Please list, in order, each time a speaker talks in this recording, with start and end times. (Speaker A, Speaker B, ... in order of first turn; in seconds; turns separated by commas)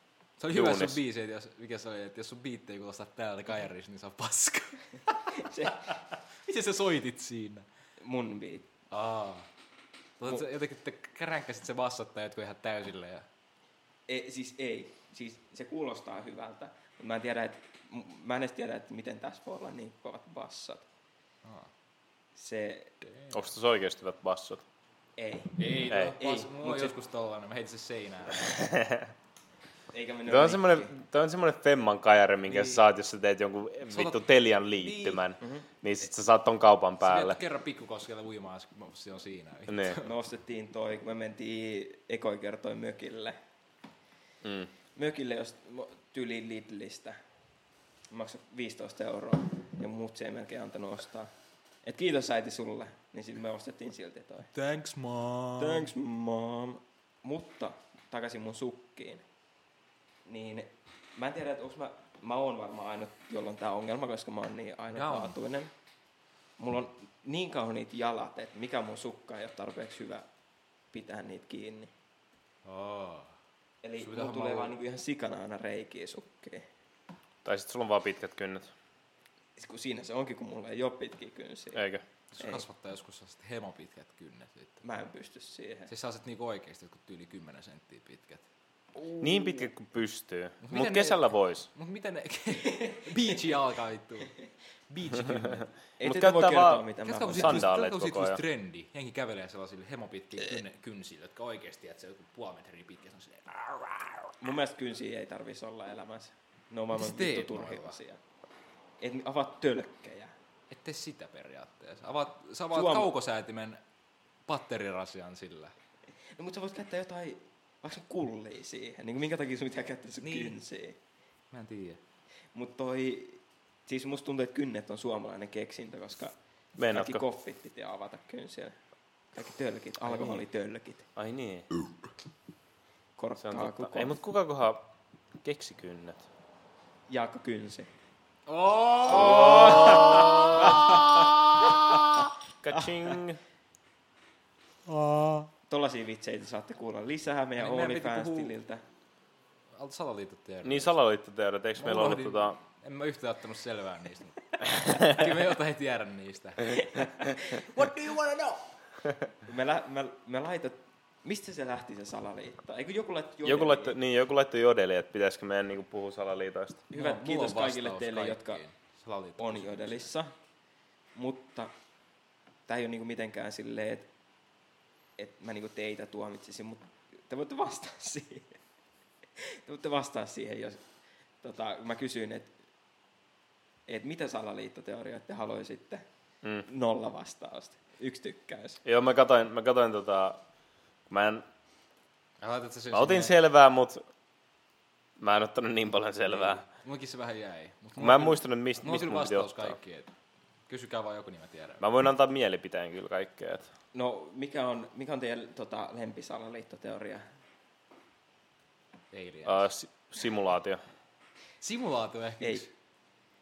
Speaker A: 0.4-5.3, Speaker B: 0.5-1.0, Speaker C: 5.3-5.9, Speaker A: 5.9-7.7, Speaker C: 8.0-8.7, Speaker A: 8.9-9.5, Speaker A: 10.2-13.2, Speaker C: 14.1-20.9, Speaker C: 22.4-22.9, Speaker A: 23.0-23.4, Speaker B: 23.3-24.6, Speaker C: 25.2-27.0, Speaker A: 25.6-28.6, Speaker B: 25.9-26.2, Speaker B: 28.5-29.1, Speaker C: 29.9-30.9, Speaker B: 30.3-37.4, Speaker A: 32.5-32.8, Speaker A: 33.9-35.2, Speaker A: 37.0-40.1, Speaker B: 39.7-40.0, Speaker C: 40.0-43.4, Speaker B: 44.4-44.7, Speaker C: 44.9-47.2, Speaker C: 48.1-51.3, Speaker C: 51.9-54.5, Speaker A: 54.5-55.9, Speaker C: 55.6-59.2, Speaker C: 60.2-65.7, Speaker A: 64.9-65.4, Speaker C: 66.6-70.2, Speaker C: 70.9-71.9, Speaker A: 72.7-73.3, Speaker C: 73.8-76.7, Speaker A: 74.0-74.8, Speaker B: 77.4-78.7, Speaker C: 79.6-81.9, Speaker B: 81.8-82.0, Speaker A: 82.3-84.8, Speaker C: 84.8-85.9, Speaker A: 85.9-88.4, Speaker A: 89.0-89.6, Speaker B: 89.2-91.7, Speaker A: 90.6-94.4, Speaker A: 94.9-95.7, Speaker C: 96.0-97.7, Speaker B: 96.0-96.8, Speaker A: 97.0-104.3, Speaker B: 97.4-98.4, Speaker C: 104.4-108.2, Speaker A: 106.9-108.0, Speaker C: 109.0-110.3, Speaker A: 110.7-113.8, Speaker C: 112.7-113.1, Speaker A: 114.5-115.7, Speaker C: 116.3-121.0, Speaker A: 120.2-120.6, Speaker A: 121.5-122.0, Speaker C: 122.5-128.8, Speaker B: 126.8-127.2, Speaker C: 129.3-131.1, Speaker A: 130.1-130.4, Speaker B: 131.2-131.7, Speaker C: 133.2-134.2, Speaker B: 133.4-134.9, Speaker B: 135.4-136.3, Speaker C: 137.1-137.9, Speaker A: 138.5-141.3, Speaker B: 139.1-140.9, Speaker C: 139.1-141.0, Speaker B: 142.6-143.4, Speaker A: 144.9-145.5, Speaker C: 145.7-148.8, Speaker A: 147.6-148.6, Speaker A: 149.8-151.0, Speaker B: 150.6-152.6, Speaker A: 151.8-158.7, Speaker C: 159.4-164.0, Speaker B: 163.4-166.8, Speaker C: 166.9-168.6, Speaker A: 166.9-170.1, Speaker C: 169.4-170.3, Speaker C: 171.2-171.7, Speaker C: 172.7-174.1, Speaker C: 175.2-178.5, Speaker C: 179.4-180.8, Speaker C: 181.4-182.5, Speaker C: 183.9-186.0, Speaker C: 186.7-188.8, Speaker B: 188.8-190.4, Speaker B: 191.1-191.4, Speaker A: 192.4-193.3, Speaker B: 192.9-194.0, Speaker B: 195.2-196.6, Speaker A: 196.3-200.1, Speaker B: 198.0-199.8, Speaker A: 200.7-201.8, Speaker B: 201.8-203.7, Speaker C: 203.9-207.2, Speaker A: 209.1-209.6, Speaker B: 209.4-210.8, Speaker A: 211.6-212.7, Speaker C: 212.4-212.7